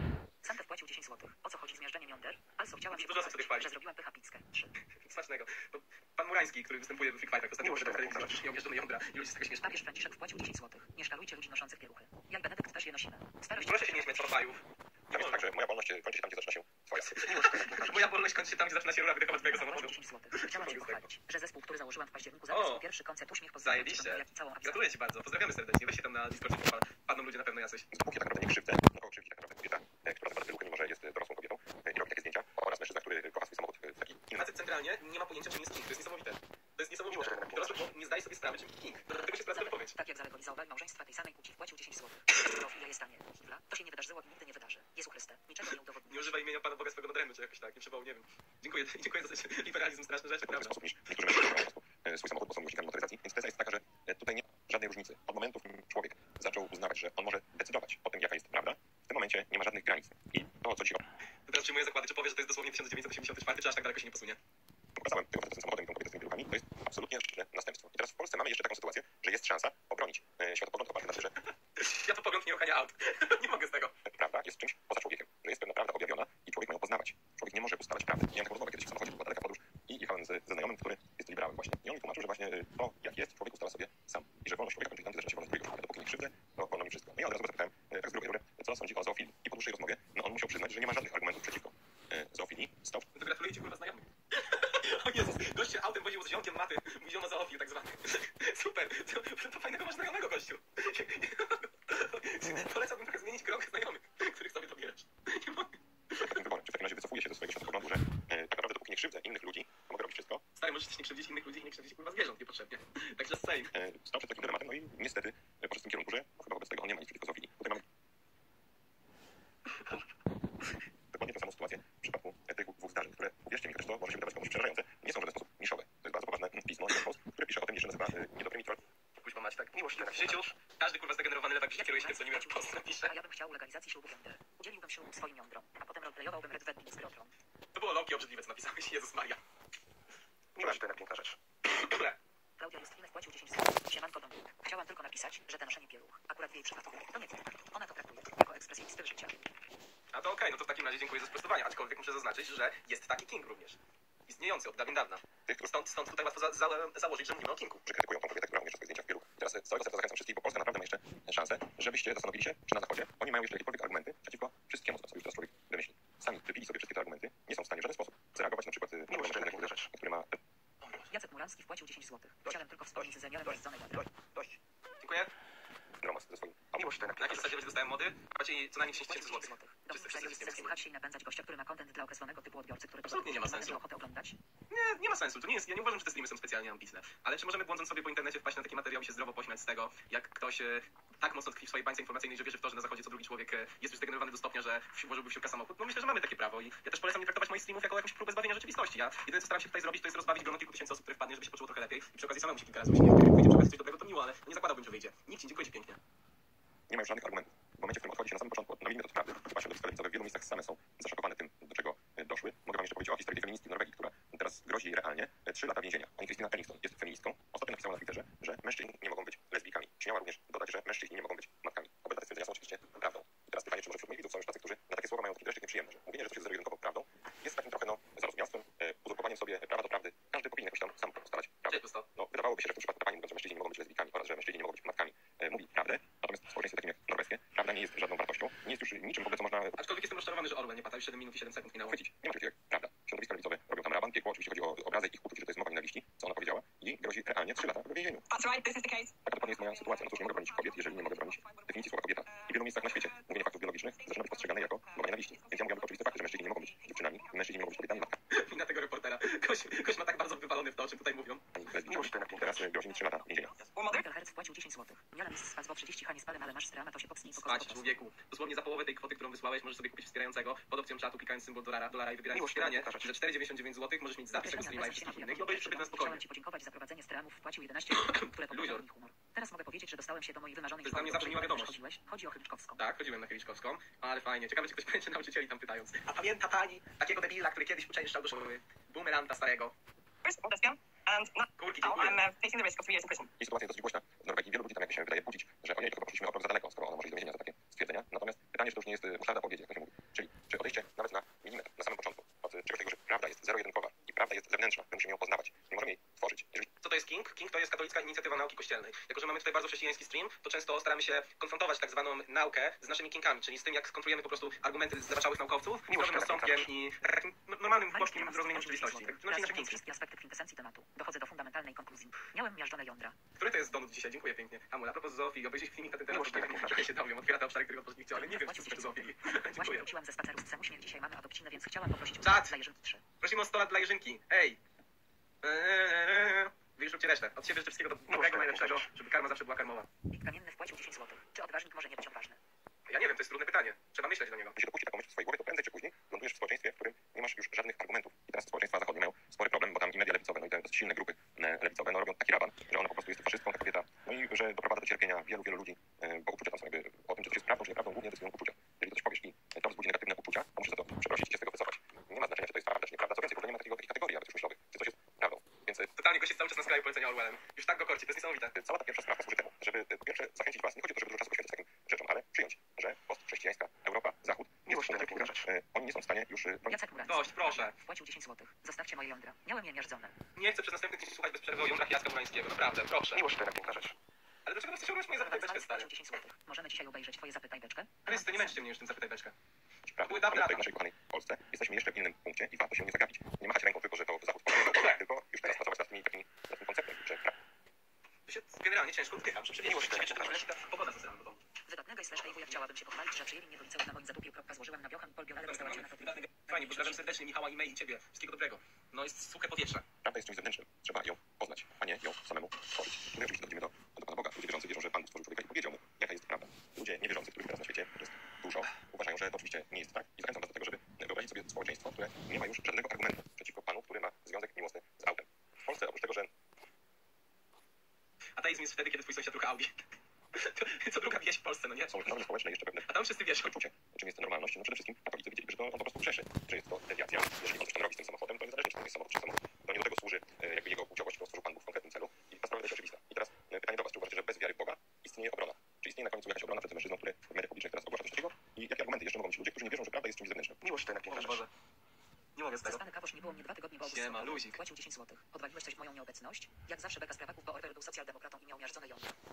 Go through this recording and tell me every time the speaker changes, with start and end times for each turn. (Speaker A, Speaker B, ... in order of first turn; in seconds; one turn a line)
Speaker A: 0.4-4.7
Speaker B: 2.9-3.7
Speaker B: 4.9-9.8
Speaker A: 9.6-14.3
Speaker B: 13.5-15.4
Speaker C: 15.1-17.5
Speaker B: 17.0-21.0
Speaker A: 19.3-25.0
Speaker B: 22.5-22.8
Speaker B: 23.6-27.9
Speaker C: 27.9-34.5
Speaker B: 34.3-39.9
Speaker A: 39.5-46.4
Speaker B: 45.6-50.7
Speaker C: 50.5-61.0
Speaker B: 61.5-64.4
Speaker C: 65.0-71.3
Speaker B: 71.8-73.9
Speaker C: 74.0-93.0
Speaker B: 93.1-106.3
Speaker C: 106.2-110.4
Speaker B: 110.6-113.7
Speaker C: 113.7-117.8
Speaker C: 121.1-128.8
Speaker B: 129.2-133.1
Speaker A: 131.7-137.3
Speaker B: 137.7-139.4
Speaker B: 140.6-142.2
Speaker A: 142.6-149.4
Speaker B: 150.1-157.8
Speaker C: 157.8-170.4
Speaker B: 170.8-171.1
Speaker A: 171.1-174.2
Speaker B: 175.0-175.3
Speaker C: 176.0-177.4
Speaker B: 177.2-180.7
Speaker A: 178.8-184.4
Speaker B: 183.0-183.8
Speaker B: 184.7-206.0
Speaker C: 206.9-239.8
Speaker B: 231.7-232.0
Speaker B: 239.8-242.0
Speaker C: 241.8-248.3
Speaker D: 248.3-253.3
Speaker C: 249.2-258.2
Speaker D: 254.0-258.1
Speaker B: 258.3-261.4
Speaker C: 261.5-263.5
Speaker D: 263.5-264.1
Speaker A: 263.9-267.9
Speaker B: 267.4-276.2
Speaker A: 274.3-282.8
Speaker B: 277.9-278.8
Speaker B: 280.8-281.8
Speaker B: 282.8-289.7
Speaker D: 290.2-293.3
Speaker B: 291.5-292.2
Speaker C: 293.4-306.7
Speaker B: 306.8-319.8
Speaker A: 317.9-323.2
Speaker B: 323.4-329.9
Speaker A: 328.1-333.0
Speaker B: 332.2-332.5
Speaker B: 333.2-334.6
Speaker B: 335.4-339.9
Speaker A: 340.1-342.4
Speaker B: 342.9-344.6
Speaker C: 344.6-365.9
Speaker B: 365.9-368.5
Speaker C: 368.5-376.8
Speaker A: 376.7-380.1
Speaker B: 377.0-377.7
Speaker B: 380.4-383.8
Speaker B: 384.4-385.9
Speaker A: 385.1-388.6
Speaker B: 388.1-389.3
Speaker C: 389.9-397.3
Speaker B: 390.0-390.6
Speaker B: 394.5-395.0
Speaker B: 398.3-401.4
Speaker A: 401.7-407.1
Speaker B: 405.4-409.9
Speaker C: 410.0-426.3
Speaker B: 428.4-429.8
Speaker B: 430.3-432.2
Speaker C: 431.9-450.8
Speaker B: 432.9-433.5
Speaker B: 451.1-451.5
Speaker B: 452.4-452.8
Speaker A: 452.6-459.1
Speaker B: 453.8-454.6